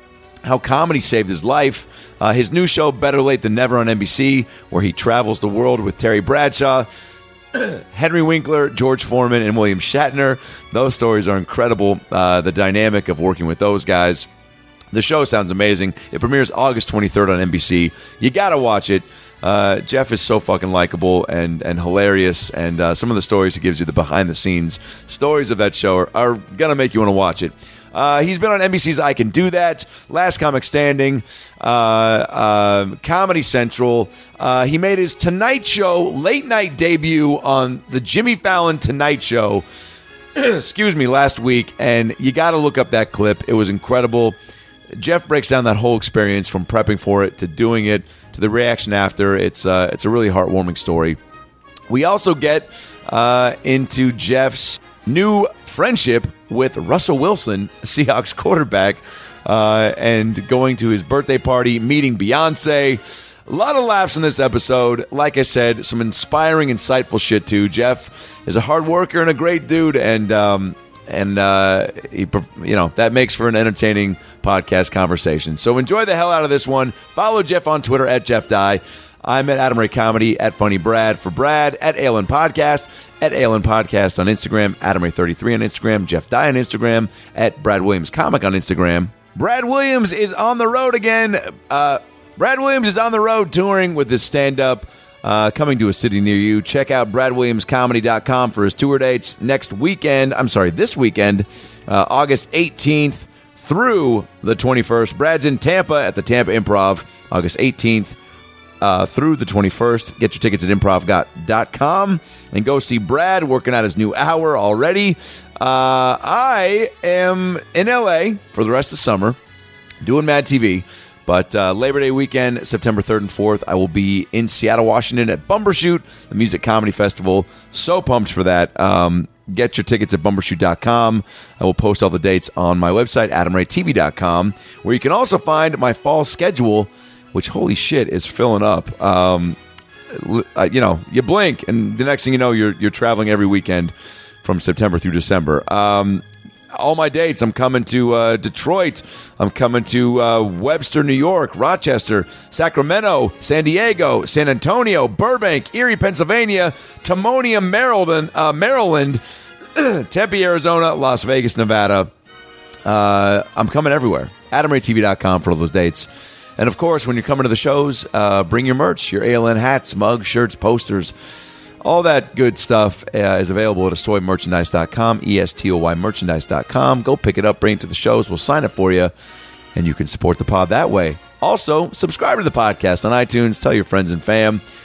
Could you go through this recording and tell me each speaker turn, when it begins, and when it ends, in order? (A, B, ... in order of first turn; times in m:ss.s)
0:00.4-0:06.9 A
0:07.5-0:14.3 A
0:14.9-0:39.6 A
0:40.4-0:44.4 A
0:45.0-0:51.2 A
0:51.9-1:48.2 A
1:48.8-1:59.4 A
2:00.0-2:19.6 A
2:20.1-2:23.9 A
2:24.4-2:39.2 A
2:39.8-2:42.1 A
2:42.8-2:51.1 A
2:51.8-2:59.1 A
2:59.8-3:04.6 A